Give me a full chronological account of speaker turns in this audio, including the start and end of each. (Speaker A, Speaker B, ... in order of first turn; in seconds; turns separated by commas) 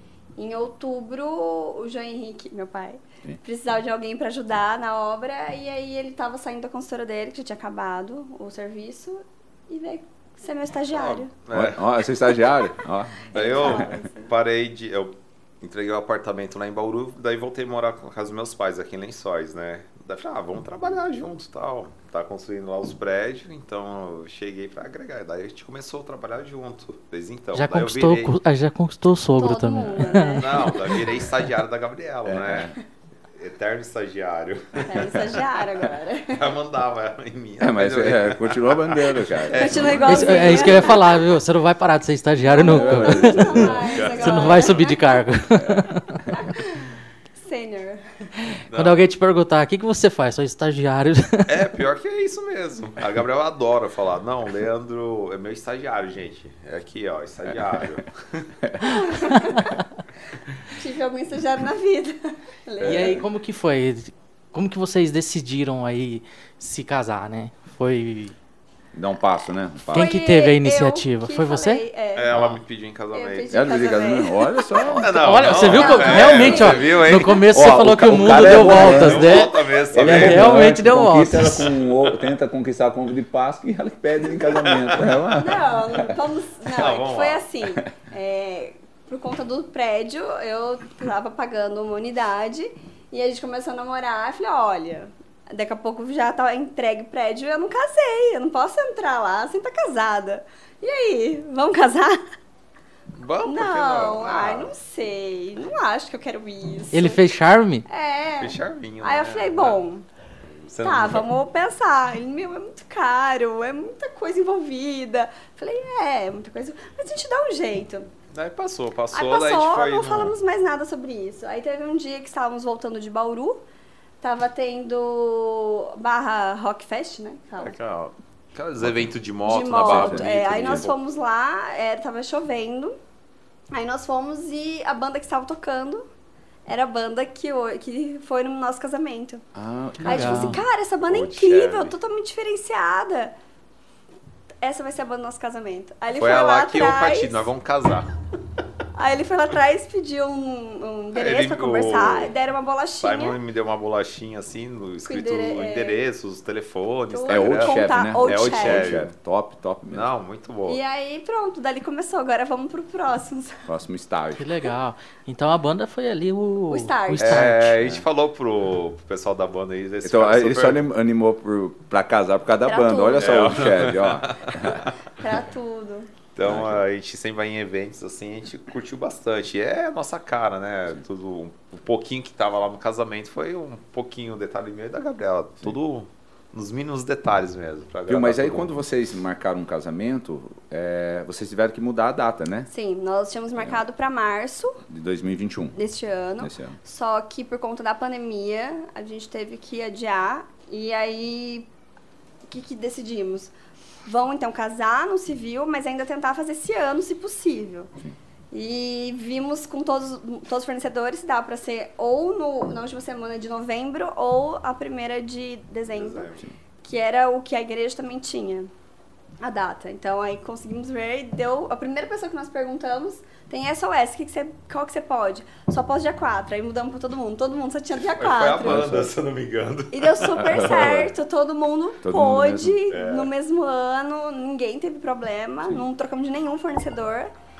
Speaker A: 0.4-11.3, Speaker B: 10.9-11.9, Speaker C: 11.5-13.9, Speaker A: 12.3-12.8, Speaker A: 13.3-14.3, Speaker B: 13.3-28.3, Speaker D: 27.5-30.9, Speaker A: 29.4-31.0, Speaker B: 30.2-32.7, Speaker C: 32.2-32.8, Speaker B: 33.4-35.6, Speaker A: 34.9-36.5, Speaker B: 36.2-41.0, Speaker C: 37.6-40.9, Speaker A: 39.5-41.2, Speaker D: 40.0-46.1, Speaker A: 42.4-45.2, Speaker C: 42.5-44.1, Speaker B: 43.8-44.9, Speaker C: 45.6-46.3, Speaker A: 46.3-46.9, Speaker A: 47.4-48.0, Speaker D: 48.4-51.6, Speaker B: 48.7-49.0, Speaker B: 51.5-59.5, Speaker A: 58.8-59.8, Speaker A: 60.7-63.2, Speaker D: 62.8-68.3, Speaker C: 68.9-70.1, Speaker D: 69.9-71.8, Speaker A: 69.9-72.5, Speaker B: 72.2-73.5, Speaker A: 73.1-77.0, Speaker C: 73.5-75.5, Speaker B: 74.8-80.6, Speaker D: 75.2-81.7, Speaker C: 77.5-86.1, Speaker B: 81.6-82.3, Speaker B: 84.3-85.3, Speaker A: 85.3-102.2, Speaker B: 86.7-87.4, Speaker B: 103.2-104.7, Speaker A: 103.4-107.3, Speaker D: 106.9-107.8, Speaker A: 107.9-110.1, Speaker B: 108.4-109.8, Speaker B: 110.4-111.3, Speaker A: 110.8-118.1, Speaker B: 118.3-120.3, Speaker A: 119.1-123.7, Speaker A: 124.2-127.8, Speaker B: 127.6-130.9, Speaker C: 128.8-129.1, Speaker A: 129.4-133.0, Speaker C: 129.8-130.9, Speaker A: 133.7-136.1, Speaker A: 136.7-139.4, Speaker C: 139.6-140.6, Speaker D: 140.0-140.6, Speaker A: 140.0-143.3, Speaker B: 141.1-141.9, Speaker A: 144.6-147.5, Speaker B: 146.1-148.1, Speaker A: 148.9-153.4, Speaker B: 151.1-152.3, Speaker B: 153.0-159.1, Speaker A: 155.1-156.0, Speaker A: 157.1-159.0, Speaker C: 157.3-160.1, Speaker B: 159.9-160.8, Speaker A: 160.7-163.7, Speaker C: 163.7-164.4, Speaker D: 164.3-167.6, Speaker A: 166.7-167.5, Speaker B: 167.2-170.8, Speaker C: 167.6-168.1, Speaker C: 170.0-174.8, Speaker A: 172.7-173.5, Speaker B: 173.2-174.9, Speaker A: 175.1-176.1, Speaker B: 176.3-188.8, Speaker C: 176.4-176.8, Speaker C: 188.1-192.7, Speaker A: 192.7-194.8, Speaker C: 193.6-193.8, Speaker C: 194.9-195.8, Speaker A: 195.7-201.7, Speaker C: 196.4-196.8, Speaker A: 202.5-203.5, Speaker A: 204.1-207.9, Speaker A: 208.5-216.3, Speaker B: 215.9-216.4, Speaker A: 216.8-218.7, Speaker A: 219.4-228.9, Speaker B: 228.0-230.4, Speaker C: 228.6-229.1, Speaker A: 229.9-237.3, Speaker C: 230.4-231.1, Speaker C: 232.0-232.8, Speaker B: 232.9-233.3